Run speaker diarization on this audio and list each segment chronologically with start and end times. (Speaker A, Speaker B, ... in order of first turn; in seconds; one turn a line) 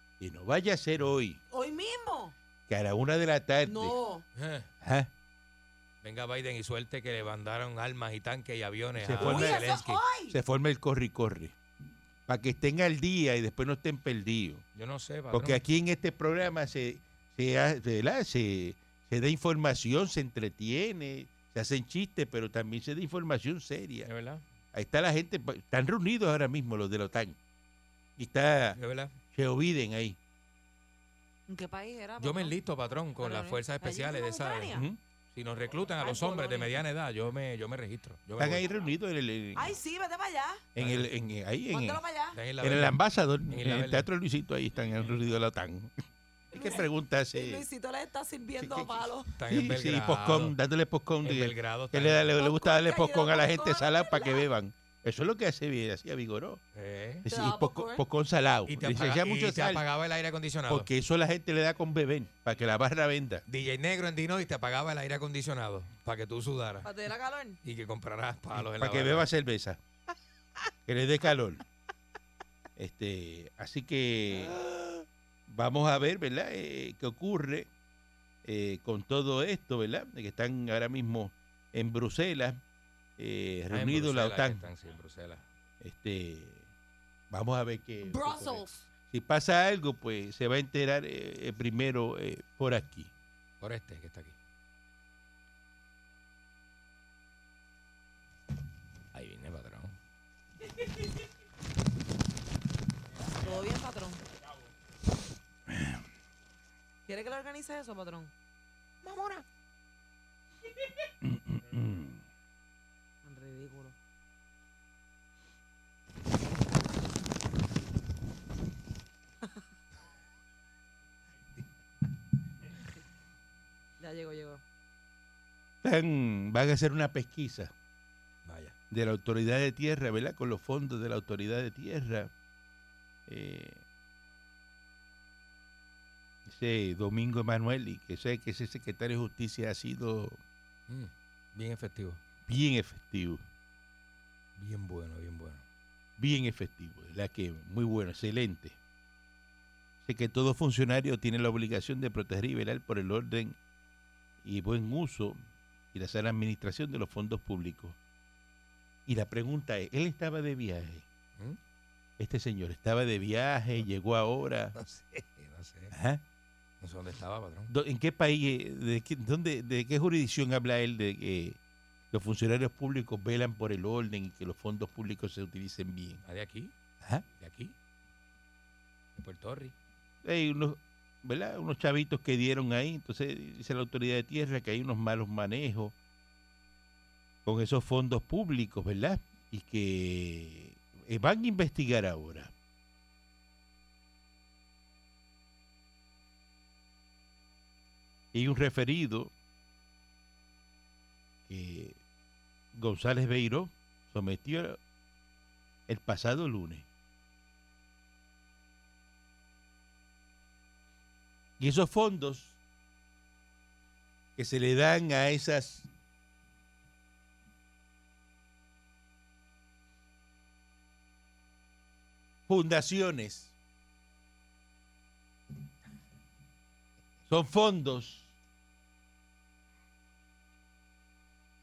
Speaker A: 0.2-1.4
Speaker B: 1.5-2.3
Speaker A: 2.7-4.0
Speaker B: 3.6-4.2
Speaker C: 4.3-4.7
Speaker A: 4.8-5.1
Speaker C: 6.0-10.0
Speaker A: 9.0-11.6
Speaker B: 9.2-10.3
Speaker A: 12.3-14.6
Speaker C: 14.7-15.6
Speaker A: 15.3-24.1
Speaker C: 24.0-24.4
Speaker A: 24.7-27.4
Speaker A: 28.2-28.8
Speaker C: 28.8-29.1
Speaker A: 29.3-30.2
Speaker B: 31.5-32.6
Speaker C: 32.2-34.8
Speaker B: 33.2-34.8
Speaker A: 34.7-35.0
Speaker C: 35.3-38.6
Speaker B: 36.0-36.8
Speaker A: 38.4-39.7
Speaker B: 39.5-40.6
Speaker A: 40.7-42.0
Speaker C: 40.8-41.1
Speaker B: 41.7-42.4
Speaker C: 42.3-44.1
Speaker A: 42.6-45.9
Speaker A: 46.5-47.6
Speaker B: 46.5-49.3
Speaker A: 48.6-56.6
Speaker C: 49.3-50.5
Speaker C: 51.2-52.3
Speaker B: 52.4-54.5
Speaker C: 56.7-57.2
Speaker A: 57.2-59.9
Speaker B: 57.3-58.0
Speaker C: 58.7-60.9
Speaker A: 60.7-63.4
Speaker C: 63.5-66.9
Speaker B: 66.8-67.6
Speaker C: 67.6-69.3
Speaker A: 68.5-69.8
Speaker A: 70.9-71.6
Speaker A: 72.8-77.7
Speaker A: 78.4-82.6
Speaker A: 83.2-84.7
Speaker C: 83.7-85.5
Speaker A: 85.8-86.7
Speaker A: 87.3-93.1
Speaker B: 88.0-88.9
Speaker C: 93.6-94.3
Speaker C: 99.1-100.0
Speaker B: 103.4-104.2
Speaker A: 105.7-106.0
Speaker B: 107.1-108.3
Speaker B: 109.0-109.4
Speaker A: 111.2-112.2
Speaker B: 113.2-113.9
Speaker B: 124.0-124.6
Speaker A: 125.8-127.7
Speaker C: 128.4-128.7
Speaker A: 128.9-132.3
Speaker A: 133.3-133.8
Speaker A: 136.4-140.4
Speaker C: 140.9-142.2
Speaker A: 142.5-143.4
Speaker C: 144.6-145.6
Speaker A: 146.2-148.8
Speaker A: 150.0-153.6
Speaker A: 154.4-155.4
Speaker A: 155.9-158.0
Speaker A: 159.1-161.0
Speaker A: 162.2-164.8
Speaker C: 164.7-165.9
Speaker A: 165.9-166.2
Speaker C: 166.8-167.7
Speaker A: 167.7-171.6
Speaker A: 172.1-176.2
Speaker C: 176.2-176.7
Speaker C: 177.4-177.7
Speaker C: 179.2-179.7
Speaker A: 180.2-185.9
Speaker A: 187.4-192.5
Speaker A: 198.3-199.3
Speaker A: 201.5-202.0
Speaker A: 202.7-204.8
Speaker A: 205.9-206.8
Speaker A: 211.6-212.6
Speaker A: 214.4-215.9
Speaker A: 222.5-223.5
Speaker A: 227.3-228.3